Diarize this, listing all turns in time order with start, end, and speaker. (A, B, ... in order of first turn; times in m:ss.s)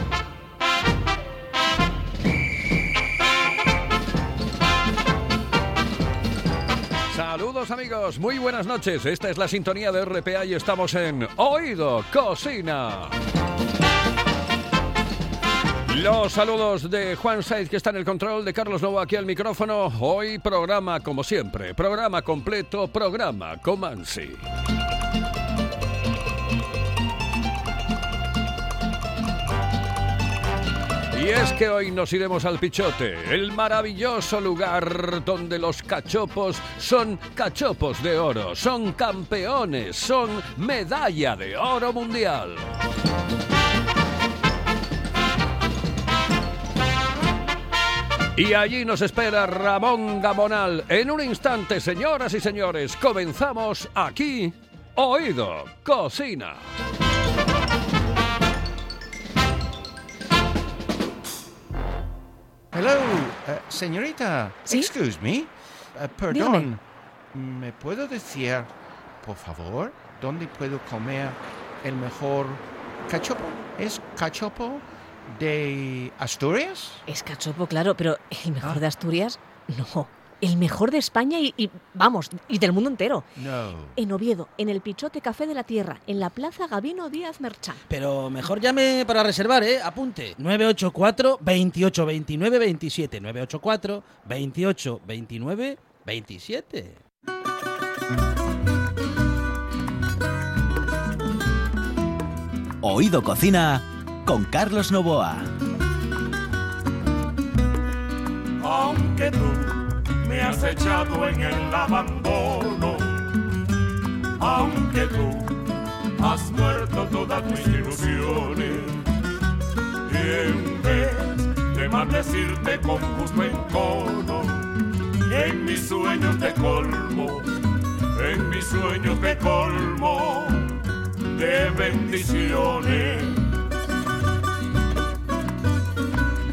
0:07.1-0:13.2 A
0:15.8-0:24.4 A
0:31.1-0:42.6 A
0:48.4-0:56.7 A
1:02.7-1:17.0 B
1:06.3-1:06.7 C
1:17.1-1:23.3 C
1:23.3-1:24.0 B
1:24.0-1:27.8 C
1:27.9-1:37.0 D
1:42.8-1:45.5 E
1:48.6-1:53.0 F
1:54.4-1:55.6 F
1:56.2-1:59.0 F
2:00.1-2:04.7 F
2:05.3-2:07.4 F
2:08.1-2:10.7 F
2:11.3-2:13.4 F